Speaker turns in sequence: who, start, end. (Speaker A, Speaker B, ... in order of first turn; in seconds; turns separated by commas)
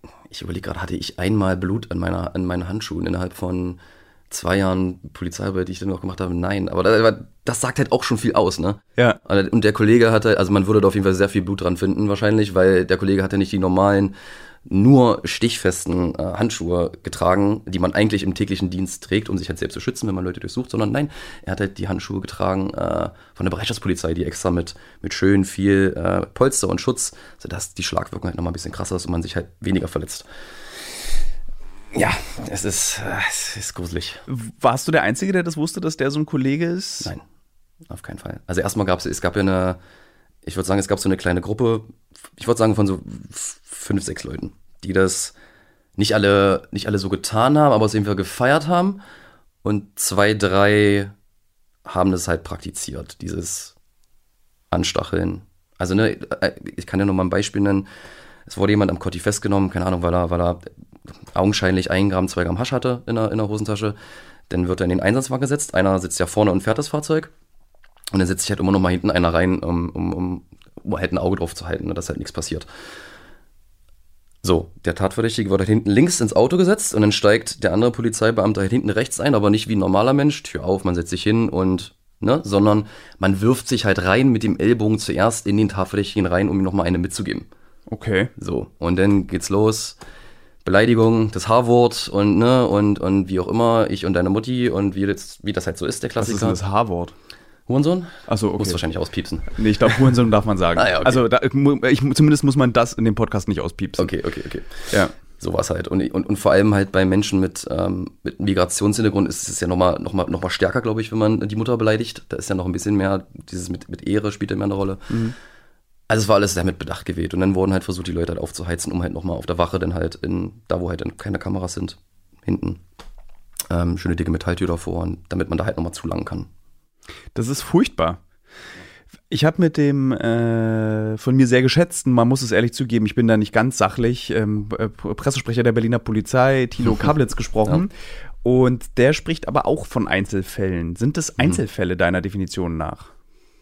Speaker A: 0.3-3.8, Speaker A: 4.3-14.1, Speaker A: 14.7-30.2, Speaker A: 31.9-34.2, Speaker B: 34.3-37.1, Speaker A: 37.9-39.8, Speaker A: 40.4-45.3, Speaker A: 46.0-49.0, Speaker A: 49.6-51.1, Speaker A: 51.9-53.7, Speaker A: 54.7-57.9, Speaker A: 58.5-60.6, Speaker A: 61.3-64.0, Speaker A: 64.5-67.3, Speaker A: 68.1-72.7, Speaker A: 74.4-87.5, Speaker B: 87.9-88.3, Speaker A: 88.4-90.0, Speaker A: 90.6-96.6, Speaker B: 96.2-97.1, Speaker A: 97.7-100.0, Speaker B: 98.3-98.8, Speaker B: 99.5-104.1, Speaker A: 100.7-101.2, Speaker A: 104.0-115.1, Speaker B: 115.1-115.3, Speaker A: 116.1-122.8, Speaker A: 123.7-126.5, Speaker B: 127.3-128.2, Speaker B: 129.3-137.9, Speaker B: 138.4-143.1